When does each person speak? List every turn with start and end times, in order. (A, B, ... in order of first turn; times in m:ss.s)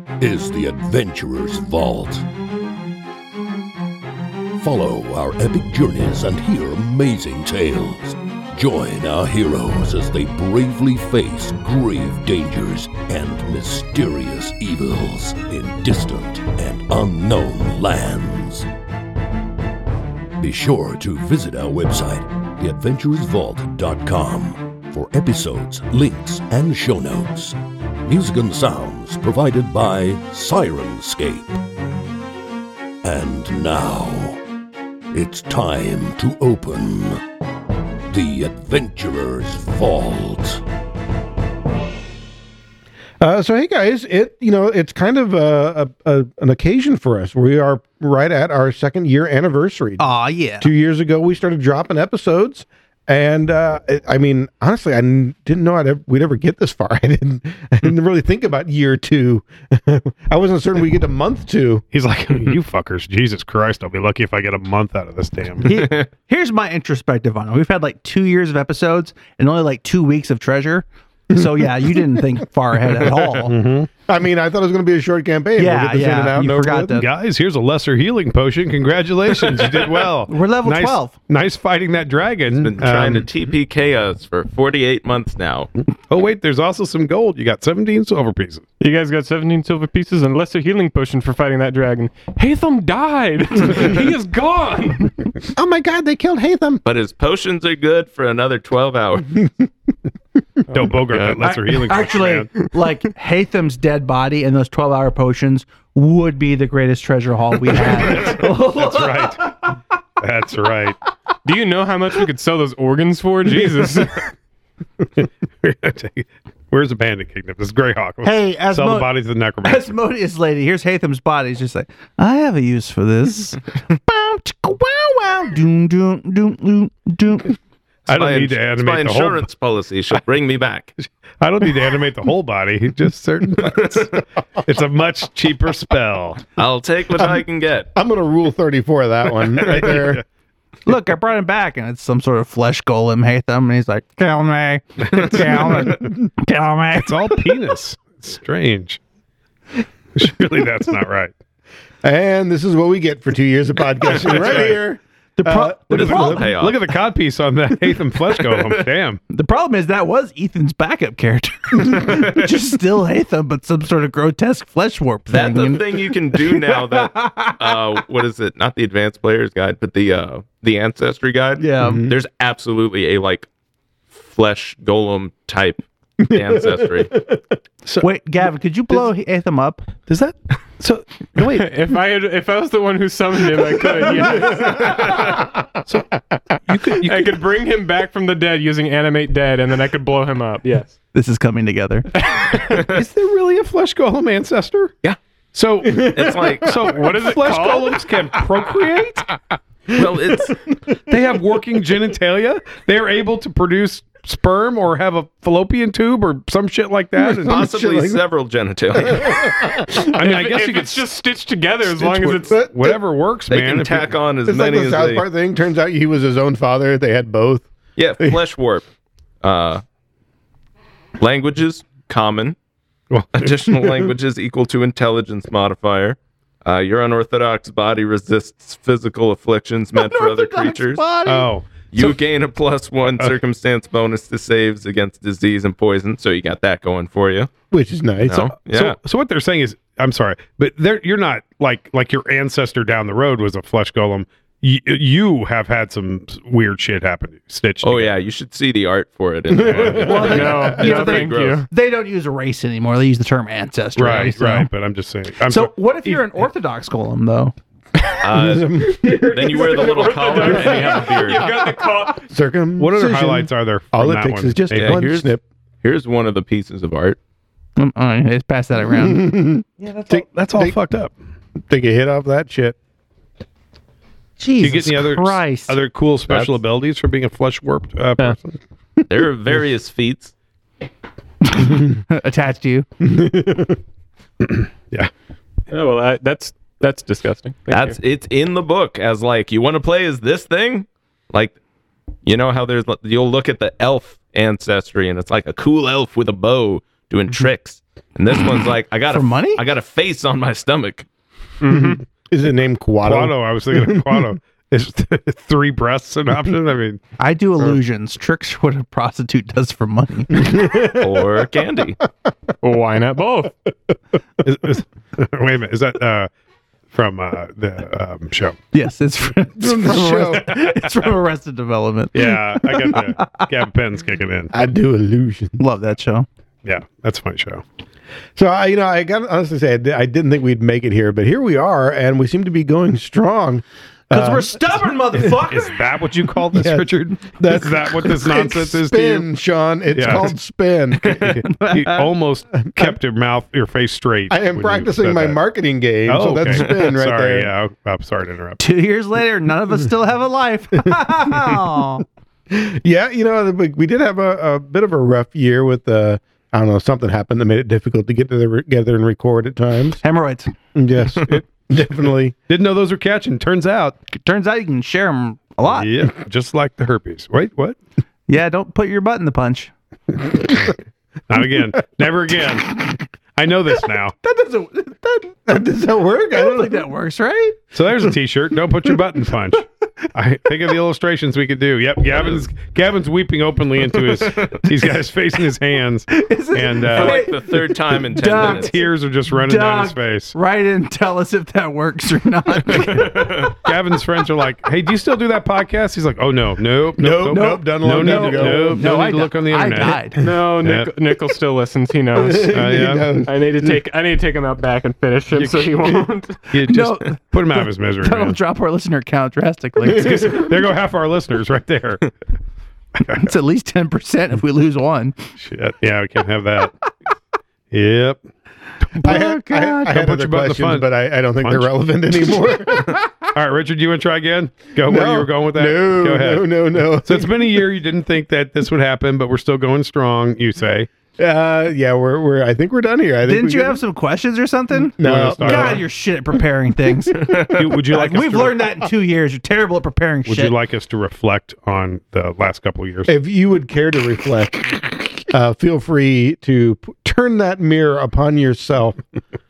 0:00.2-0:02.2 A
0:04.6-0:18.7 A
0:20.4-0:31.6 A
0:33.0-0:34.4 A
0:35.1-0:37.2 A
0:38.1-0:40.6 A
0:43.2-0:50.0 B
0:50.0-0:50.7 C
0:50.6-1:01.8 B
1:01.9-1:05.9 D
1:05.6-1:13.5 C
1:05.8-1:06.1 E
1:13.5-1:13.9 D
1:14.0-1:17.0 B
1:15.6-1:17.1 C
1:16.9-1:23.3 D
1:20.3-1:21.1 C
1:22.5-1:25.7 E
1:26.1-1:28.6 D
1:28.8-1:35.1 F
1:35.5-1:36.8 B
1:36.8-1:39.5 E
1:40.7-1:42.5 D
1:41.1-1:41.4 E
1:41.4-1:49.7 C
1:48.0-1:49.6 D
1:50.2-1:51.0 D
1:51.4-1:54.2 F
1:55.2-1:59.9 D
1:58.2-1:59.1 C
1:59.6-2:07.6 C
2:08.1-2:09.4 D
2:08.1-2:10.9 E
2:11.4-2:16.4 D
2:16.6-2:17.9 E
2:17.2-2:20.2 B
2:19.5-2:20.2 D
2:20.8-2:27.5 C
2:25.1-2:26.0 D
2:26.9-2:29.0 D
2:30.1-2:31.3 D
2:32.0-2:36.4 B
2:34.1-2:34.8 D
2:35.4-2:36.5 C
2:35.9-2:36.8 E
2:36.0-2:39.2 D
2:38.4-2:38.8 E
2:39.3-2:48.0 C
2:45.3-2:53.5 E
2:51.6-2:52.0 C
2:51.8-2:52.1 B
2:54.1-2:57.2 E
2:56.2-2:57.4 B
2:58.0-2:59.9 C
3:00.1-3:01.6 D
3:01.4-3:05.3 F
3:04.4-3:04.7 B
3:06.7-3:07.3 D
3:06.8-3:10.9 F
3:11.1-3:12.1 C
3:12.2-3:14.9 D
3:15.5-3:19.4 D
3:15.9-3:17.0 E
3:17.0-3:18.1 F
3:19.9-3:20.6 E
3:21.0-3:27.8 D
3:27.2-3:28.2 B
3:27.4-3:29.6 E
3:29.0-3:30.1 B
3:30.0-3:31.0 D
3:30.1-3:32.6 F
3:32.0-3:34.1 D
3:32.5-3:33.0 B
3:33.5-3:35.2 E
3:34.4-3:37.7 B
3:38.0-3:38.8 E
3:39.4-3:39.8 E
3:41.2-3:42.6 E
3:43.1-3:43.9 D
3:43.3-3:51.0 E
3:49.9-3:51.5 C
3:51.2-3:52.2 D
3:51.9-3:57.5 E
3:57.7-3:58.6 B
3:58.2-3:59.0 E
3:58.6-4:08.2 D
4:07.8-4:11.6 E
4:09.5-4:10.5 B
4:09.6-4:10.5 D
4:10.0-4:14.7 C
4:10.2-4:11.6 F
4:14.0-4:16.3 D
4:15.4-4:17.5 C
4:18.2-4:21.5 E
4:18.2-4:25.4 B
4:19.0-4:22.2 F
4:22.8-4:25.1 D
4:24.7-4:25.3 E
4:25.8-4:27.2 E
4:27.8-4:29.4 C
4:29.0-4:30.8 B
4:30.1-4:31.1 D
4:31.7-4:32.8 B
4:34.4-4:35.8 C
4:34.6-4:38.6 D
4:36.3-4:36.5 E
4:39.1-4:40.3 E
4:41.5-4:42.8 C
4:43.0-4:43.8 B
4:44.4-4:45.1 D
4:45.7-4:48.0 F
4:47.7-4:51.6 E
4:52.2-5:01.1 E
4:59.1-4:59.6 C
5:01.6-5:02.0 F
5:01.7-5:04.3 B
5:03.0-5:07.0 D
5:07.2-5:10.4 C
5:10.6-5:10.9 B
5:10.6-5:12.0 E
5:12.6-5:13.5 F
5:14.4-5:16.3 D
5:16.9-5:18.6 D
5:18.7-5:23.5 C
5:19.6-5:20.5 B
5:20.6-5:20.9 D
5:22.1-5:24.6 D
5:24.5-5:25.6 B
5:25.6-5:26.3 C
5:26.6-5:27.6 D
5:28.4-5:34.6 B
5:34.1-5:35.8 C
5:35.2-5:39.3 D
5:36.5-5:41.4 B
5:39.9-5:40.3 D
5:41.0-5:45.4 D
5:41.4-5:42.1 C
5:42.6-5:43.0 B
5:44.3-5:47.5 B
5:46.0-5:48.6 D
5:48.6-5:52.0 C
5:51.2-5:51.5 B
5:52.5-6:00.0 B
6:00.0-6:00.5 C
6:00.7-6:02.4 B
6:02.5-6:04.0 D
6:04.1-6:05.9 C
6:05.7-6:07.8 D
6:08.3-6:09.7 C
6:11.3-6:14.1 D
6:14.2-6:15.5 C
6:15.5-6:16.8 B
6:16.3-6:17.6 C
6:17.7-6:27.3 D
6:22.2-6:22.4 E
6:24.0-6:24.6 E
6:26.1-6:33.4 C
6:26.9-6:28.8 E
6:28.3-6:30.3 D
6:32.9-6:40.9 D
6:37.0-6:38.9 B
6:37.3-6:40.2 C
6:40.1-6:46.4 F
6:42.1-6:43.7 B
6:42.4-6:43.2 D
6:45.3-6:48.4 D
6:46.6-6:50.5 C
6:49.8-6:52.1 D
6:53.0-6:55.1 C
6:55.4-6:56.7 D
6:57.7-6:58.2 D
6:58.9-7:00.0 C
6:59.0-7:03.0 B
6:59.9-7:00.9 D
7:01.4-7:01.7 D
7:03.3-7:06.5 D
7:04.9-7:07.6 B
7:07.0-7:10.9 D
7:11.2-7:13.8 B
7:13.2-7:20.5 C
7:15.0-7:15.9 D
7:15.0-7:15.8 B
7:17.5-7:18.7 D
7:20.2-7:23.1 D
7:23.1-7:29.0 B